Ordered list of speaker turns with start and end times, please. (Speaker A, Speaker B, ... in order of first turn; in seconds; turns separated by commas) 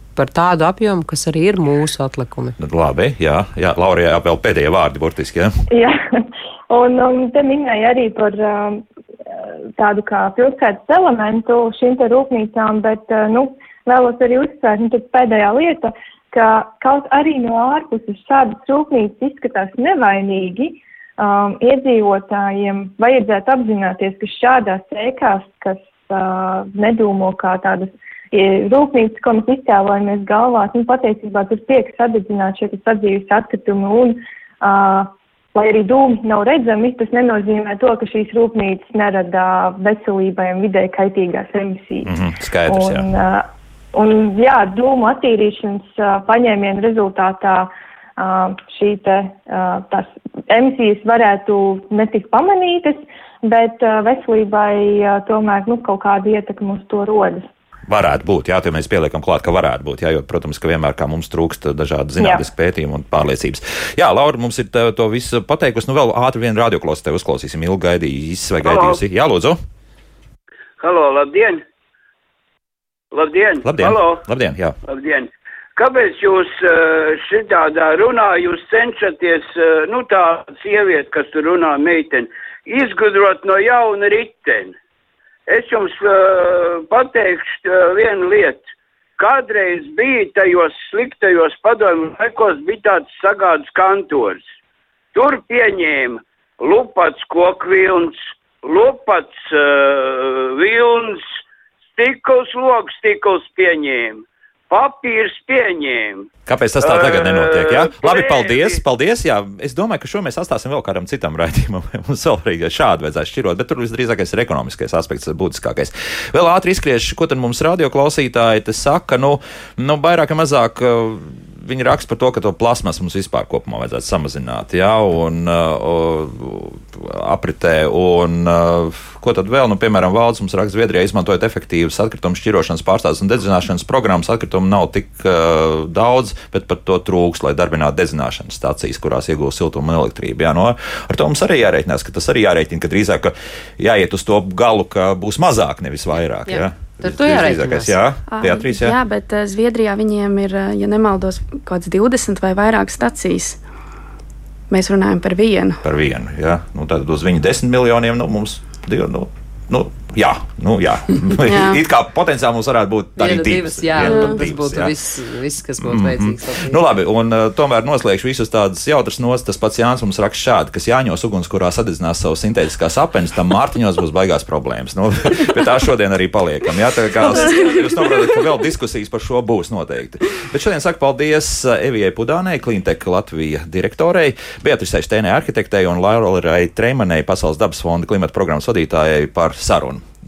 Speaker A: 0.1-2.6, Speaker B: 2.6-5.6, Speaker C: 5.7-42.1, Speaker B: 42.0-43.1, Speaker C: 42.7-57.4, Speaker B: 57.9-69.6, Speaker D: 68.6-69.0, Speaker D: 70.8-71.6, Speaker D: 73.1-74.2, Speaker B: 73.6-74.7, Speaker D: 74.9-84.7, Speaker D: 85.5-88.6, Speaker D: 89.2-94.4, Speaker D: 95.1-101.2, Speaker D: 101.9-106.3, Speaker B: 106.5-149.0, Speaker D: 106.8-108.8, Speaker A: 146.5-148.0, Speaker E: 148.3-153.6, Speaker E: 154.7-155.8, Speaker B: 155.8-164.9, Speaker E: 161.4-161.8, Speaker A: 163.2-166.8, Speaker E: 164.0-164.3, Speaker B: 165.8-190.1, Speaker E: 177.4-177.8